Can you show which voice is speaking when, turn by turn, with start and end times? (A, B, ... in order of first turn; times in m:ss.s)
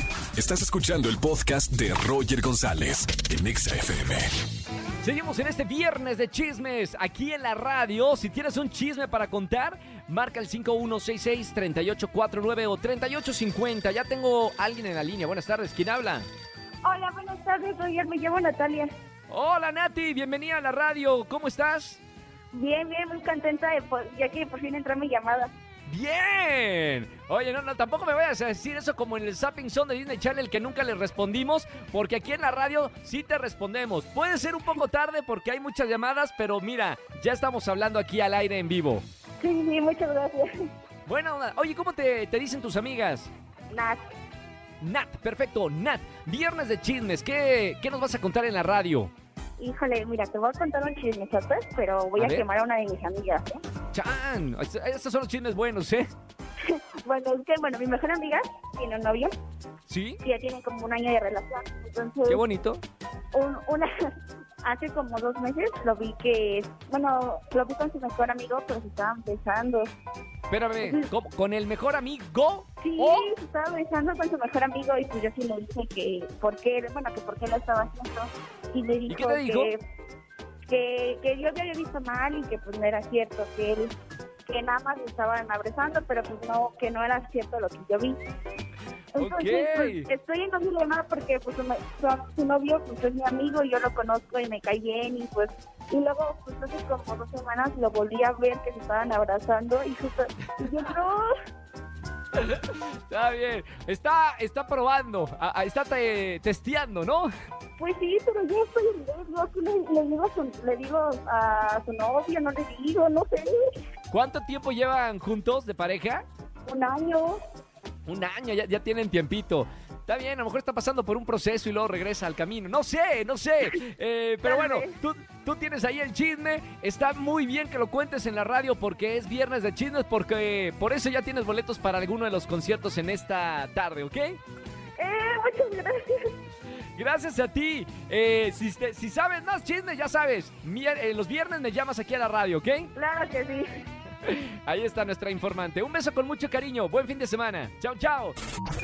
0:00.3-0:04.3 A
0:05.0-0:16.3 B
0:16.8-0:18.9 C
0:19.3-0:22.0 B
0:22.5-0:25.5 C
0:25.9-0:39.0 B
0:39.4-0:40.5 C
0:41.0-0:43.3 B
0:43.7-0:44.0 C
0:44.8-0:49.1 B
0:49.6-0:53.6 C
0:52.2-0:52.4 B
0:53.9-0:56.1 B
0:56.6-0:59.3 C
0:59.9-1:00.2 B
1:00.2-1:02.4 C
1:02.3-1:02.8 B
1:03.3-1:03.9 C
1:04.6-1:09.9 C
1:10.5-1:13.3 B
1:10.8-1:11.1 C
1:12.8-1:19.8 C
1:19.1-1:19.7 B
1:20.7-1:23.9 C
1:24.4-1:28.2 C
1:29.2-1:41.3 C
1:29.2-1:30.1 B
1:42.4-1:47.3 B
1:47.8-1:53.8 C
1:54.1-1:56.2 B
1:56.6-1:57.4 C
1:58.1-2:14.4 B
2:04.4-2:04.9 C
2:15.0-2:16.3 C
2:17.0-2:22.9 B
2:22.9-2:23.6 C
2:24.2-2:28.4 B